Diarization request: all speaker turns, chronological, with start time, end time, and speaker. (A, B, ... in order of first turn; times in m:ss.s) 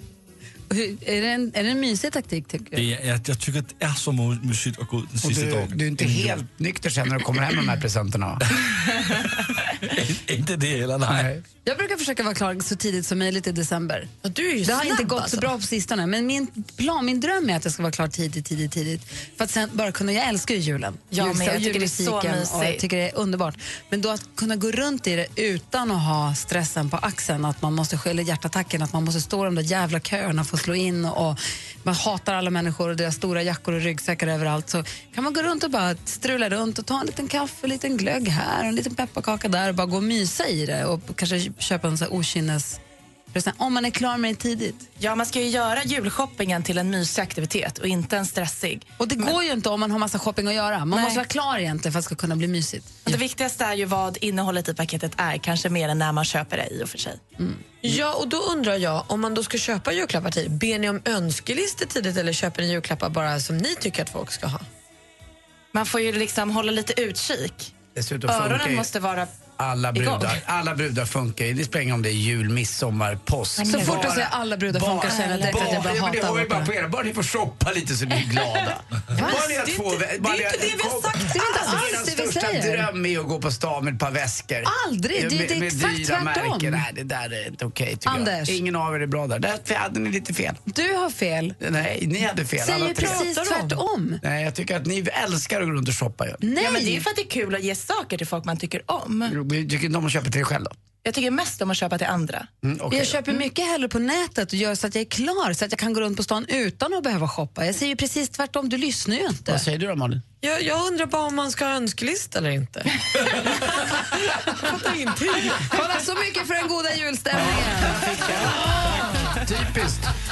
0:00.7-0:02.8 A
0:02.8-0:06.4 B
0:05.2-0:08.4 C
0:09.8-0:11.3 B
0:11.1-0:11.4 C
0:11.7-0:14.1 A
0:14.2-0:15.5 D
0:14.6-0:42.8 A
0:21.1-0:22.8 E
0:43.3-0:44.9 A
0:45.0-0:49.4 E
0:49.0-0:53.1 A
0:50.9-0:51.2 E
0:53.1-0:57.2 E
0:57.8-1:04.7 D
1:05.7-1:07.7 E
1:08.0-1:08.9 C
1:08.3-1:09.3 E
1:09.6-1:30.6 C
1:10.0-1:10.4 E
1:13.6-1:14.3 E
1:13.7-1:16.7 A
1:15.1-1:15.8 E
1:19.2-1:19.4 A
1:19.2-1:21.5 D
1:21.2-1:22.9 A
1:24.6-1:26.8 A
1:28.1-1:28.6 A
1:30.7-1:31.6 A
1:31.6-1:33.3 C
1:32.6-1:34.2 A
1:34.2-1:36.4 C
1:36.4-1:37.0 A
1:36.6-1:39.4 E
1:39.3-1:40.8 C
1:41.0-1:42.5 E
1:42.6-1:43.4 C
1:42.9-1:49.6 A
1:49.5-1:50.2 C
1:50.4-1:55.8 D
1:55.7-1:58.2 A
1:57.7-2:00.1 C